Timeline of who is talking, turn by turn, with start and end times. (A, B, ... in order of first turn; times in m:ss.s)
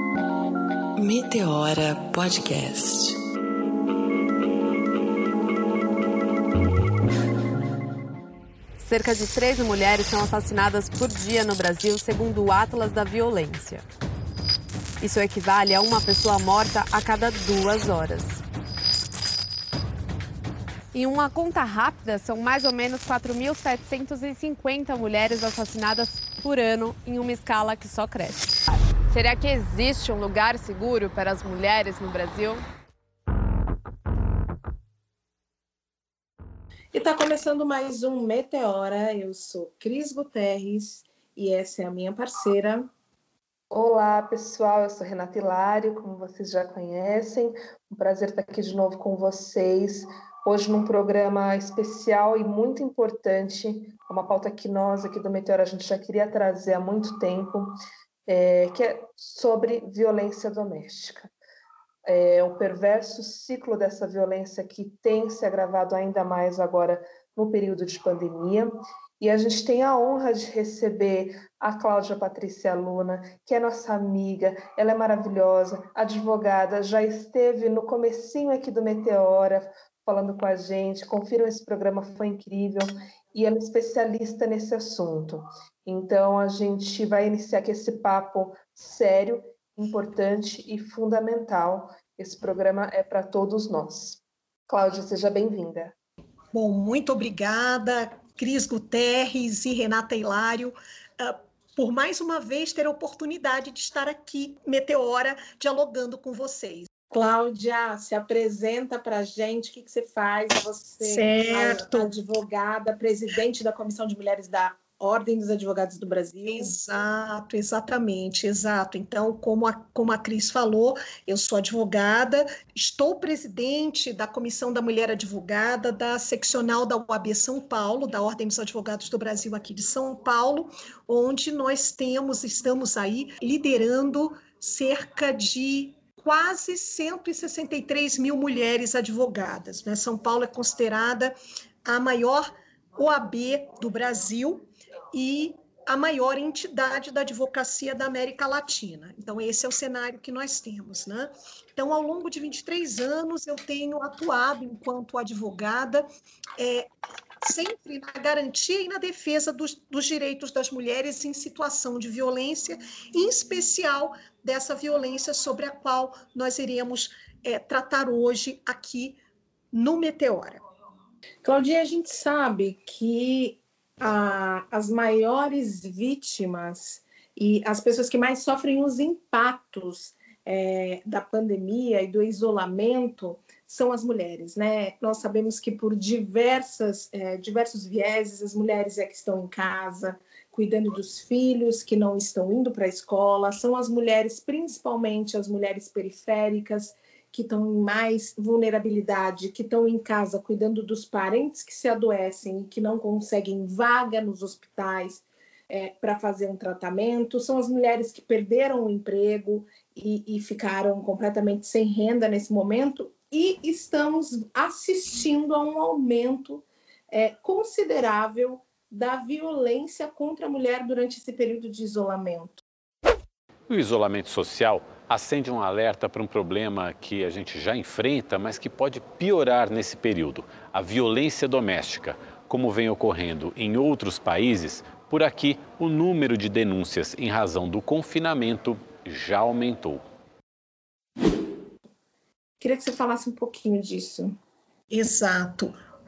0:01.0-0:03.2 A
0:08.8-0:13.9 B
0:15.0-0:18.4 B
0:20.9-0:28.6 B
0:29.1-0:32.6 B
0:36.9-0:42.9 C
0:43.7-0:57.8 D
0:58.3-1:01.3 D
1:02.1-1:35.9 D
1:36.5-1:46.9 E
1:47.1-1:56.7 C
1:51.0-1:52.1 E
1:56.5-2:21.3 E
2:21.8-2:36.0 E
2:36.6-2:36.9 E
2:37.4-2:49.2 E
2:49.7-2:50.6 E
2:51.4-3:42.6 C
3:43.7-4:00.0 F
4:02.6-4:04.4 C
4:04.9-4:05.7 E